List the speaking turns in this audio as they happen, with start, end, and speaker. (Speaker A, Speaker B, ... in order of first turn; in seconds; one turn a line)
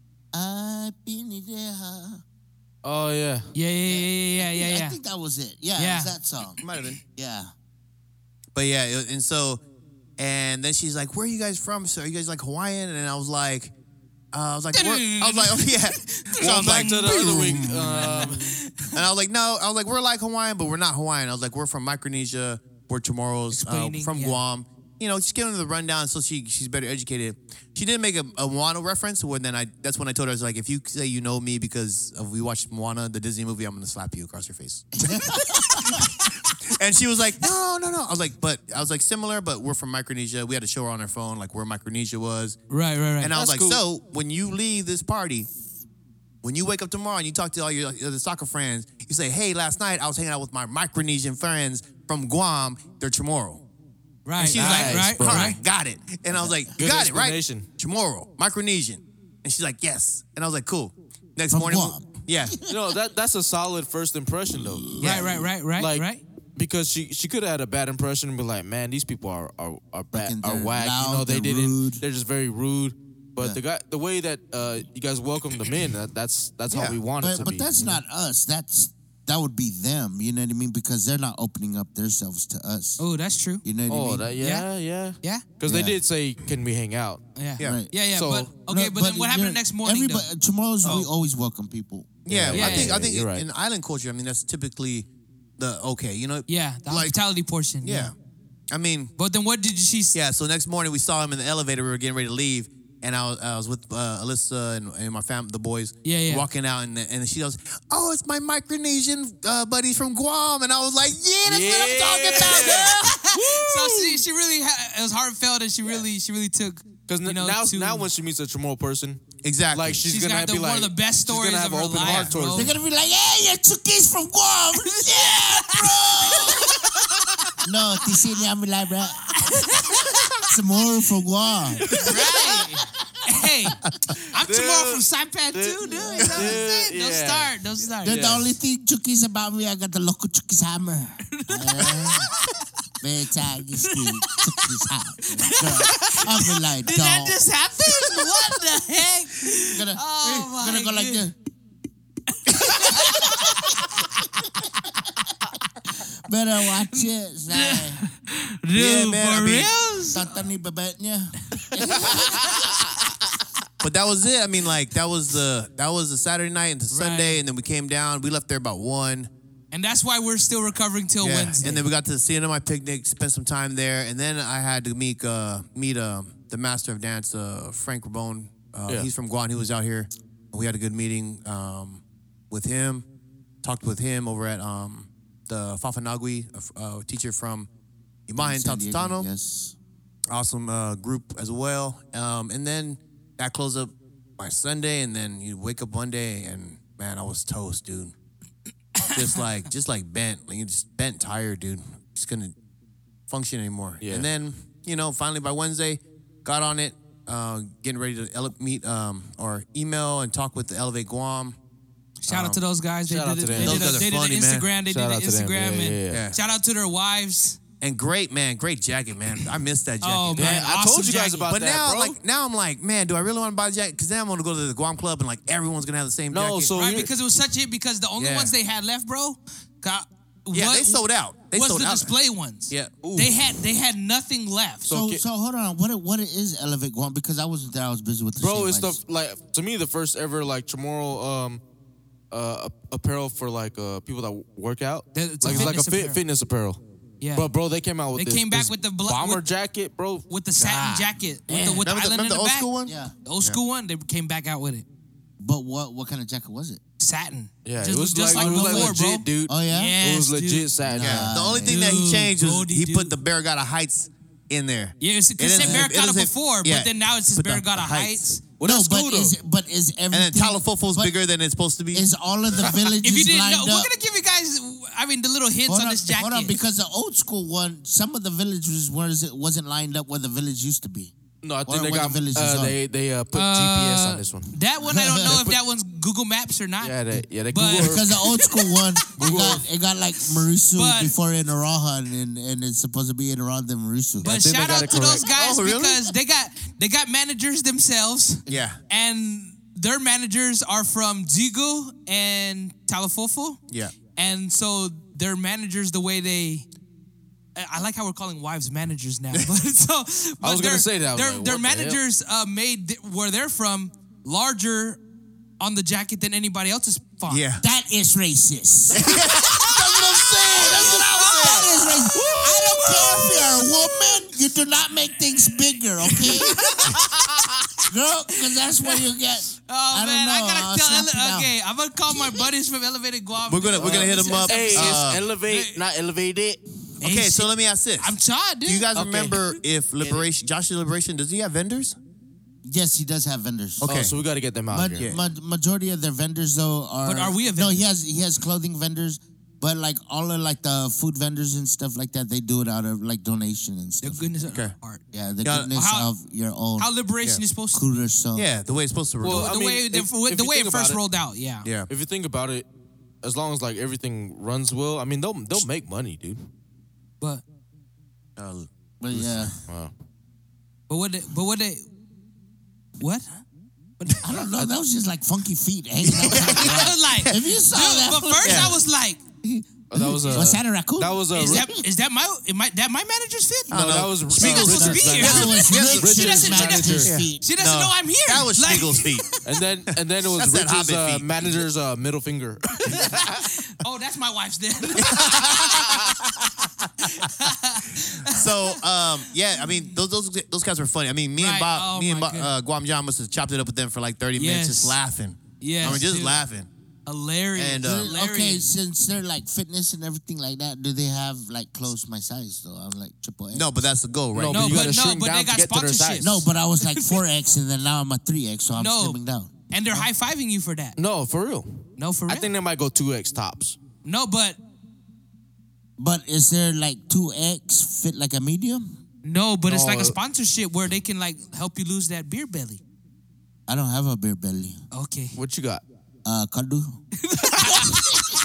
Speaker A: 0.3-2.2
Speaker B: 2.8-3.5
Speaker C: 3.5-5.0
Speaker A: 3.9-6.6
Speaker C: 5.8-6.2
Speaker D: 6.6-7.0
Speaker A: 7.1-7.5
Speaker D: 8.5-9.6
Speaker D: 10.2-13.7
Speaker D: 14.3-18.3
Speaker C: 14.7-18.9
Speaker B: 16.4-18.6
Speaker D: 18.9-42.6
Speaker C: 23.5-24.4
Speaker A: 35.0-36.0
Speaker C: 42.7-43.3
Speaker D: 43.2-45.5
Speaker B: 43.3-43.8
Speaker D: 46.4-53.6
Speaker C: 54.2-55.6
Speaker D: 54.4-62.6
Speaker B: 54.5-55.6
Speaker A: 56.3-56.7
Speaker B: 56.8-57.7
Speaker A: 61.5-62.8
Speaker B: 62.7-65.2
Speaker A: 64.5-65.5
Speaker C: 65.0-66.2
Speaker B: 65.8-78.0
Speaker A: 70.1-72.0
Speaker D: 76.7-77.5
Speaker A: 77.2-83.0
Speaker C: 83.0-83.6
Speaker A: 83.6-84.3
Speaker B: 83.9-87.2
Speaker C: 84.4-84.7
Speaker A: 85.7-86.0
Speaker C: 87.4-90.3
Speaker A: 87.6-87.9
Speaker B: 88.0-88.5
Speaker A: 88.7-92.1
Speaker D: 92.2-97.2
Speaker B: 92.3-93.5
Speaker C: 92.5-93.0
Speaker C: 96.5-98.1
Speaker D: 97.8-98.1
Speaker D: 98.7-99.1
Speaker C: 99.2-100.2
Speaker D: 100.1-113.0
Speaker C: 106.0-106.5
Speaker B: 111.5-113.0
Speaker C: 112.5-118.1
Speaker B: 113.7-114.2
Speaker B: 117.1-122.8
Speaker D: 119.4-120.0
Speaker C: 120.0-122.8
Speaker D: 122.0-122.3
Speaker A: 122.5-126.8
Speaker C: 124.8-127.1
Speaker A: 127.6-129.5
Speaker C: 129.4-130.4
Speaker A: 130.5-132.5
Speaker C: 131.9-138.3
Speaker B: 134.4-137.5
Speaker A: 135.9-136.6
Speaker A: 138.0-142.3
Speaker B: 138.1-138.6
Speaker C: 141.3-142.6
Speaker A: 143.0-147.4
Speaker C: 143.8-144.7
Speaker C: 145.3-151.2
Speaker A: 149.7-151.3
Speaker C: 152.5-153.8
Speaker A: 156.3-158.0
Speaker C: 156.9-160.3
Speaker D: 158.7-159.7
Speaker A: 160.1-162.6
Speaker D: 163.8-169.3
Speaker C: 166.9-167.4
Speaker C: 169.7-171.9
Speaker D: 171.2-183.1
Speaker D: 183.6-187.7
Speaker D: 188.3-189.3
Speaker A: 188.4-189.8
Speaker D: 190.3-198.1
Speaker D: 199.1-202.5
Speaker D: 203.3-211.6
Speaker B: 204.0-204.3
Speaker C: 212.2-217.6
Speaker D: 212.3-212.6
Speaker B: 213.1-214.0
Speaker D: 213.6-214.7
Speaker B: 214.9-216.2
Speaker D: 216.1-216.4
Speaker D: 217.8-220.7
Speaker C: 220.0-221.5
Speaker B: 220.4-222.2
Speaker D: 221.5-226.7
Speaker B: 226.3-227.1
Speaker C: 226.8-231.0
Speaker D: 228.2-228.5
Speaker D: 230.5-232.1
Speaker C: 231.5-234.9
Speaker D: 232.7-233.0
Speaker B: 233.0-233.3
Speaker B: 234.8-235.2
Speaker A: 234.9-239.0
Speaker B: 238.4-241.6
Speaker B: 242.3-246.8
Speaker C: 245.1-246.2
Speaker A: 245.4-245.8
Speaker C: 247.2-247.5
Speaker B: 247.3-250.3
Speaker C: 248.2-249.4
Speaker C: 250.3-252.7
Speaker A: 250.6-251.9
Speaker D: 251.8-253.6
Speaker A: 252.8-253.1
Speaker C: 253.2-254.8
Speaker A: 255.4-256.8
Speaker C: 257.0-260.7
Speaker B: 257.6-261.4
Speaker A: 258.3-260.0
Speaker A: 260.8-261.8
Speaker D: 261.0-268.2
Speaker C: 261.6-263.1
Speaker C: 265.0-268.4
Speaker A: 265.6-265.9
Speaker B: 268.6-269.4
Speaker A: 268.6-271.1
Speaker D: 270.1-272.1
Speaker A: 271.9-273.9
Speaker C: 273.0-276.6
Speaker A: 275.7-281.1
Speaker B: 281.4-284.6
Speaker A: 281.7-282.8
Speaker C: 283.3-287.0
Speaker A: 284.8-285.4
Speaker B: 285.2-285.6
Speaker B: 286.8-288.3
Speaker C: 287.5-289.2
Speaker A: 287.8-294.3
Speaker B: 289.2-289.6
Speaker C: 290.7-291.2
Speaker B: 294.2-295.2
Speaker C: 294.2-303.6
Speaker D: 295.3-296.1
Speaker D: 298.5-298.8
Speaker C: 304.1-306.7
Speaker C: 307.6-315.0
Speaker B: 310.4-312.0
Speaker C: 315.6-317.4
Speaker D: 317.3-317.6
Speaker A: 317.6-319.1
Speaker D: 318.9-319.7
Speaker C: 319.6-323.7
Speaker A: 319.6-326.8
Speaker D: 320.6-321.7
Speaker C: 326.2-327.0
Speaker B: 327.0-327.5
Speaker A: 327.9-331.5
Speaker C: 329.7-335.8
Speaker A: 332.1-332.4
Speaker D: 333.5-335.2
Speaker B: 333.8-336.6
Speaker C: 337.0-338.9
Speaker D: 337.0-338.1
Speaker D: 338.6-342.0
Speaker B: 338.9-340.2
Speaker A: 342.6-343.9
Speaker D: 343.8-344.1
Speaker B: 343.9-345.1
Speaker A: 344.7-354.2
Speaker C: 347.0-347.9
Speaker C: 354.0-355.0
Speaker D: 354.4-354.7
Speaker A: 355.1-356.9
Speaker D: 355.4-355.7
Speaker C: 355.7-356.1
Speaker C: 356.8-357.9
Speaker A: 357.7-358.5
Speaker D: 358.4-359.5
Speaker B: 359.2-361.0
Speaker C: 359.3-361.7
Speaker D: 361.6-361.9
Speaker B: 361.9-362.6
Speaker B: 363.2-366.5
Speaker D: 368.4-369.6
Speaker A: 369.0-369.6
Speaker C: 370.9-371.9
Speaker C: 373.0-373.4
Speaker C: 374.0-374.3
Speaker A: 374.2-378.8
Speaker D: 376.0-377.4
Speaker C: 376.4-379.2
Speaker D: 378.4-378.7
Speaker A: 379.4-381.9
Speaker B: 379.9-381.7
Speaker C: 381.3-389.4
Speaker D: 383.7-386.1
Speaker B: 383.7-387.1
Speaker A: 384.9-387.4
Speaker D: 387.1-389.3
Speaker B: 389.4-393.2
Speaker D: 390.2-391.7
Speaker C: 392.9-395.9
Speaker D: 395.0-396.2
Speaker C: 397.0-398.8
Speaker D: 398.3-406.7
Speaker C: 401.4-402.5
Speaker C: 404.4-405.0
Speaker C: 405.6-406.4
Speaker C: 407.1-408.7
Speaker D: 407.6-408.1
Speaker A: 407.8-413.7
Speaker D: 413.5-414.9
Speaker B: 414.3-416.5
Speaker C: 414.5-417.2
Speaker A: 416.2-420.1
Speaker C: 418.8-421.0
Speaker B: 421.0-423.8
Speaker C: 422.0-422.5
Speaker C: 424.0-424.6
Speaker A: 426.0-428.9
Speaker C: 429.2-432.8
Speaker B: 429.7-430.2
Speaker A: 433.7-434.8
Speaker C: 434.9-435.4
Speaker B: 435.4-435.8
Speaker A: 436.2-437.0
Speaker C: 437.2-438.1
Speaker A: 437.6-438.2